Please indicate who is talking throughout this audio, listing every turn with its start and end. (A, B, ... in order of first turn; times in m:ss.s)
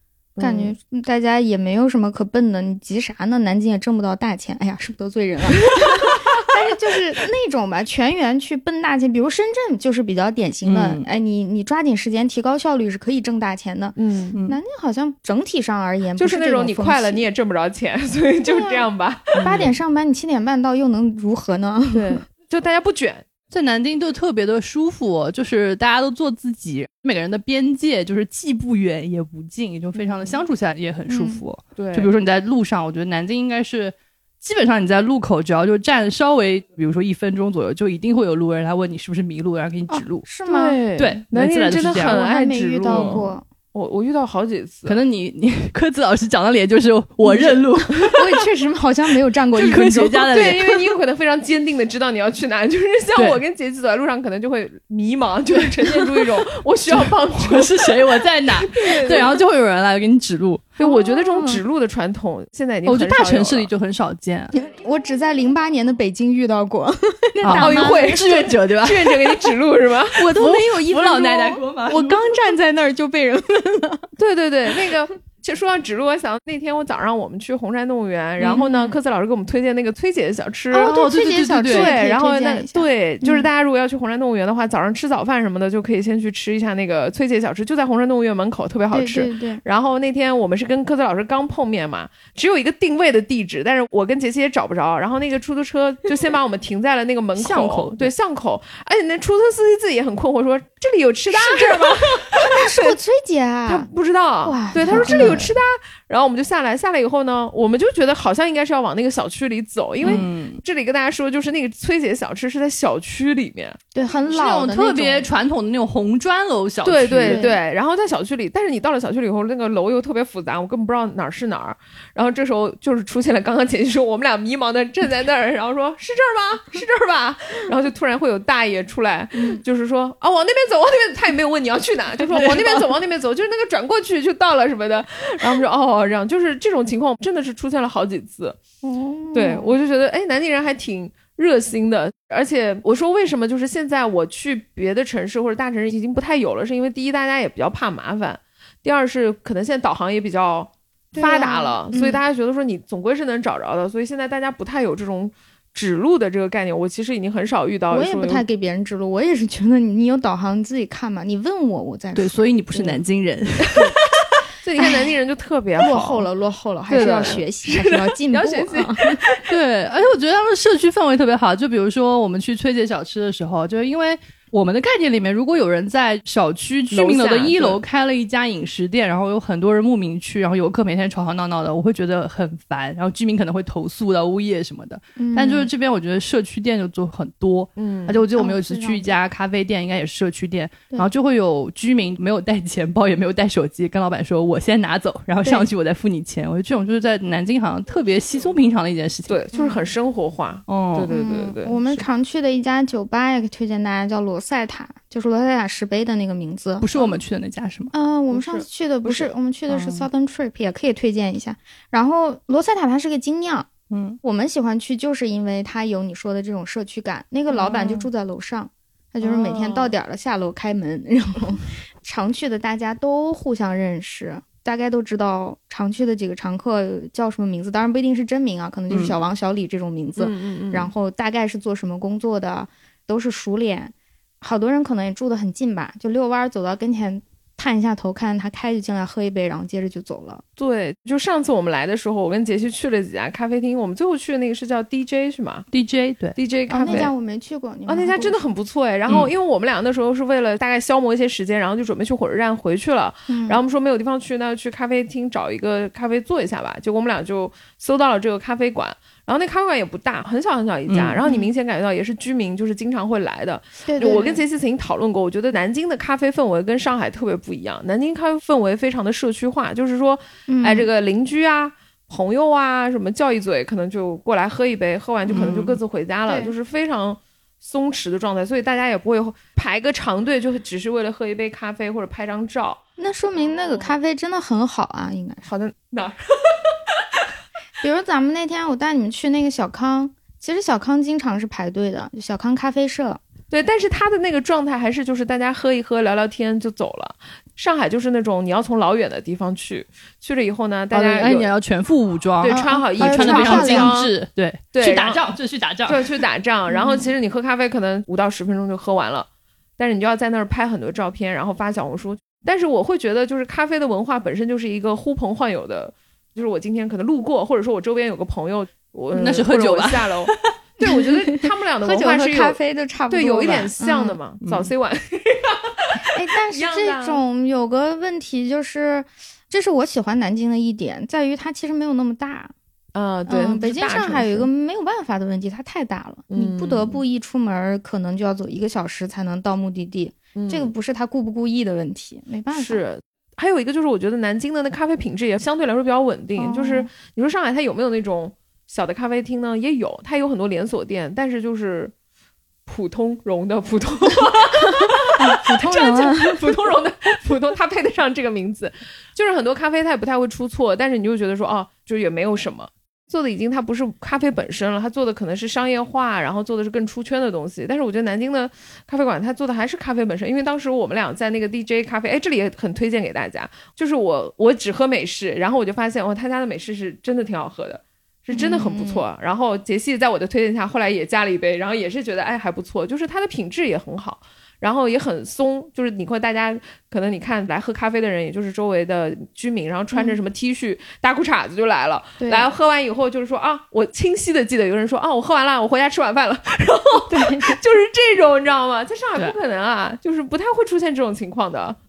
0:00.4-0:00.7 A
0:00.4-0:17.2 B
0:10.6-0:11.0 C
0:14.0-0:14.4 A
0:16.2-0:19.6 A
0:18.5-0:18.9 B
0:19.4-0:19.7 C
0:19.4-0:22.2 B
0:21.9-0:23.3 A
0:23.5-0:40.3 C
0:30.0-0:30.4 A
0:31.1-0:31.4 B
0:31.8-0:32.1 A
0:39.9-0:40.8 B
0:40.5-0:45.0 A
0:41.0-0:42.2 C
0:42.1-0:43.4 B
0:42.9-0:43.2 C
0:44.9-0:48.2 C
0:47.2-0:50.5 B
0:49.6-0:50.8 C
0:50.3-0:59.4 A
0:53.2-0:53.4 C
0:55.8-1:00.7 C
1:00.8-1:03.7 A
1:00.8-1:01.6 B
1:02.9-1:04.5 C
1:04.5-1:08.2 B
1:07.4-1:09.4 C
1:07.5-1:10.3 A
1:10.2-1:12.2 C
1:10.3-1:14.1 B
1:14.2-1:21.0 A
1:18.4-1:18.9 B
1:20.7-1:23.5 B
1:20.8-1:22.0 C
1:21.6-1:43.0 A
1:28.9-1:29.6 B
1:37.4-1:38.1 C
1:41.3-1:43.9 B
1:43.7-1:53.8 A
1:44.4-1:45.5 B
1:44.9-1:45.5 C
1:50.0-1:50.6 C
1:53.9-1:55.3 B
1:54.3-1:57.4 C
1:56.8-2:18.6 A
1:57.3-1:57.6 B
2:09.4-2:09.6 B
2:12.3-2:12.8 C
2:18.8-2:19.7 B
2:19.3-2:38.4 A
2:31.2-2:32.2 B
2:37.9-2:42.4 B
2:42.2-2:43.9 C
2:44.6-2:46.3 A
2:44.8-2:45.1 B
2:45.8-2:49.2 B
2:46.9-2:49.5 A
2:49.5-3:19.4 C
2:56.9-2:57.8 A
3:05.2-3:05.7 B
3:07.8-3:08.2 A
3:08.4-3:09.2 B
3:19.3-3:22.0 A
3:20.7-3:21.1 C
3:21.1-3:26.9 B
3:26.8-3:27.9 C
3:27.9-3:33.7 B
3:28.3-3:29.3 A
3:33.9-3:34.2 C
3:34.2-4:00.4 B
3:39.2-3:39.9 A
3:48.9-3:49.2 C
3:50.2-3:50.9 A
4:00.6-4:05.7 A
4:05.7-4:06.4 C
4:06.4-4:07.1 A
4:06.7-4:08.4 B
4:07.9-4:42.8 A
4:13.3-4:13.6 B
4:20.9-4:21.2 C
4:23.9-4:24.4 B
4:30.5-4:30.9 B
4:35.3-4:35.8 C
4:36.3-4:36.5 B
4:43.0-4:45.5 B
4:45.5-4:47.2 A
4:47.8-4:53.2 B
4:53.5-5:01.5 A
5:00.9-5:06.2 C
5:02.4-5:04.1 A
5:02.5-5:04.0 B
5:04.7-5:05.2 A
5:05.9-5:22.6 A
5:06.7-5:07.1 B
5:19.1-5:20.4 C
5:20.8-5:24.2 B
5:23.1-5:27.2 A
5:24.4-5:24.7 C
5:26.1-5:32.5 B
5:33.0-5:34.5 A
5:33.3-5:42.8 B
5:36.3-5:37.0 A
5:40.4-5:40.7 A
5:42.5-5:51.9 A
5:46.4-5:46.9 B
5:52.7-6:41.8 A
5:54.7-5:56.5 B
6:18.3-6:19.0 B
6:32.2-6:32.5 B
6:37.1-6:37.6 B